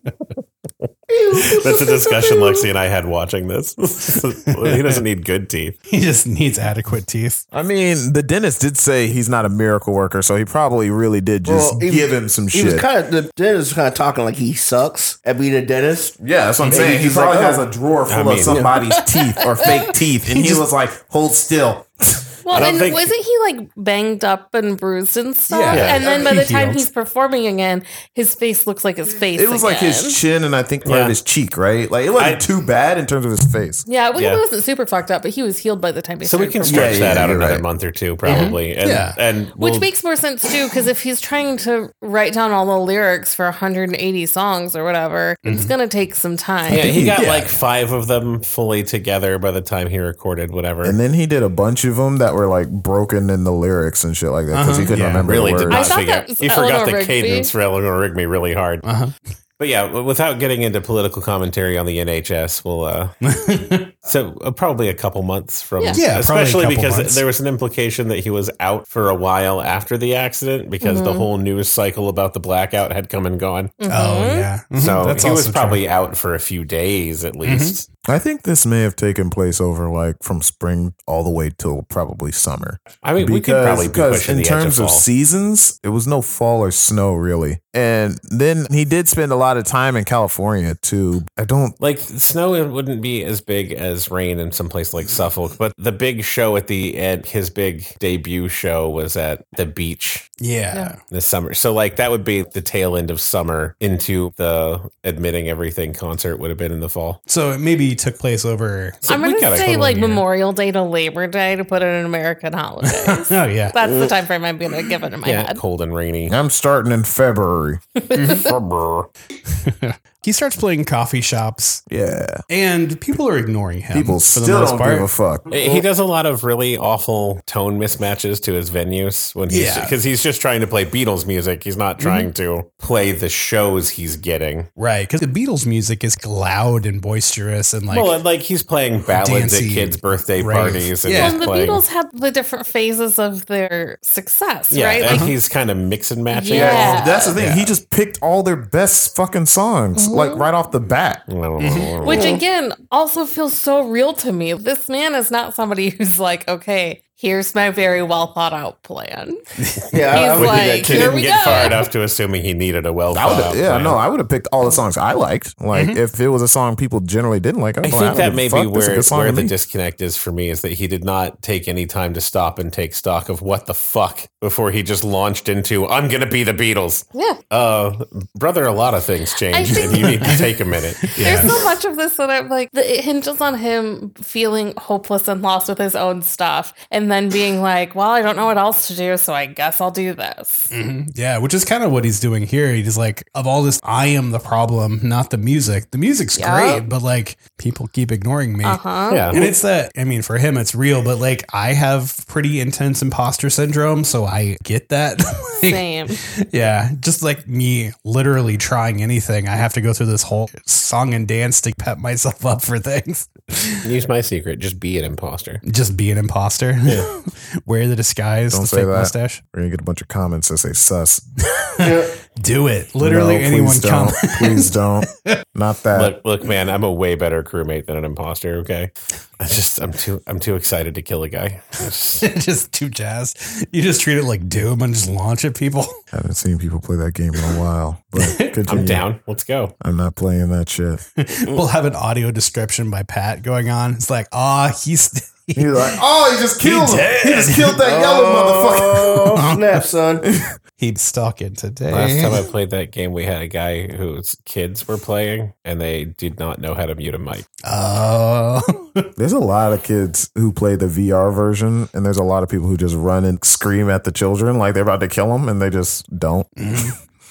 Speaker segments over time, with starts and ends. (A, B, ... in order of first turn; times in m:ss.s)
0:01.1-0:02.7 A
0:01.4-0:05.7 B
0:04.4-0:05.0 C
0:05.9-0:07.4 C
0:07.5-0:12.8 D
0:11.4-0:17.6 A
0:16.2-0:22.2 D
0:16.6-0:16.9 C
0:18.1-0:18.6 B
0:18.4-0:18.8 A
0:18.8-0:19.9 E
0:20.3-0:20.6 C
0:22.4-0:30.2 E
0:22.5-0:23.1 B
0:25.5-0:26.9 C
0:25.7-0:26.0 B
0:25.9-0:26.3 D
0:29.3-0:33.8 D
0:30.8-0:31.2 B
0:32.2-0:32.4 B
0:33.8-0:37.1 E
0:34.1-0:34.4 B
0:36.2-0:39.9 B
0:36.6-0:37.6 D
0:38.2-0:39.2 C
0:39.6-0:47.1 E
0:45.4-0:45.7 C
0:46.7-0:51.0 B
0:46.8-0:47.5 C
0:50.8-0:55.9 D
0:54.5-0:55.3 C
0:54.9-0:58.8 B
0:55.7-0:57.5 E
0:58.8-0:59.1 C
0:59.6-1:03.1 B
1:03.2-1:03.9 C
1:04.0-1:13.7 B
1:05.8-1:06.0 E
1:05.9-1:07.2 C
1:10.8-1:11.3 E
1:13.8-1:14.5 E
1:13.9-1:15.8 C
1:14.8-1:17.8 B
1:17.4-1:17.8 C
1:18.0-1:31.8 D
1:23.0-1:25.0 B
1:31.8-1:40.3 B
1:40.4-1:41.0 C
1:41.1-1:47.2 B
1:47.3-1:49.0 C
1:49.0-1:50.2 B
1:49.0-1:55.6 E
1:52.8-1:53.7 C
1:53.8-1:54.1 A
1:55.2-1:56.4 B
1:56.3-1:57.8 D
1:58.0-1:58.5 E
1:58.1-1:58.4 C
1:58.3-1:59.1 B
1:59.5-2:01.8 C
2:01.9-2:02.4 D
2:02.5-2:05.1 C
2:03.9-2:05.5 D
2:05.5-2:14.7 B
2:09.5-2:10.0 C
2:12.0-2:12.3 C
2:14.8-2:18.2 C
2:17.9-2:21.8 B
2:19.1-2:21.4 C
2:21.1-2:25.3 E
2:24.7-2:27.7 B
2:25.0-2:25.3 C
2:26.3-2:27.3 E
2:26.5-2:31.2 D
2:29.9-2:30.4 E
2:31.3-2:32.2 B
2:31.6-2:31.9 C
2:32.0-2:39.4 E
2:32.1-2:32.4 A
2:39.6-2:39.9 C
2:39.9-2:41.6 A
2:40.1-2:41.8 E
2:40.1-2:44.0 B
2:43.1-2:49.5 D
2:45.7-2:46.0 C
2:47.8-3:01.7 B
2:59.4-3:00.4 E
3:00.0-3:00.5 C
3:01.0-3:01.5 C
3:01.1-3:10.7 E
3:10.7-3:33.9 C
3:16.3-3:16.8 E
3:18.6-3:19.5 E
3:19.1-3:19.5 B
3:25.6-3:26.2 E
3:33.8-3:35.6 B
3:35.6-3:39.4 C
3:38.5-3:41.2 D
3:41.6-3:45.4 C
3:41.8-3:42.1 A
3:43.0-3:46.1 D
3:45.9-3:52.2 B
3:52.2-3:56.0 C
3:56.1-3:59.0 D
3:58.2-3:58.6 C
3:58.7-3:59.7 B
3:59.8-4:01.0 D
4:01.2-4:06.0 C
4:05.6-4:09.4 D
4:06.6-4:07.8 C
4:07.8-4:10.2 A
4:09.4-4:09.8 C
4:10.2-4:10.6 D
4:10.8-4:12.4 C
4:11.9-4:17.5 B
4:17.6-4:19.1 C
4:19.2-4:26.8 D
4:26.6-4:26.9 C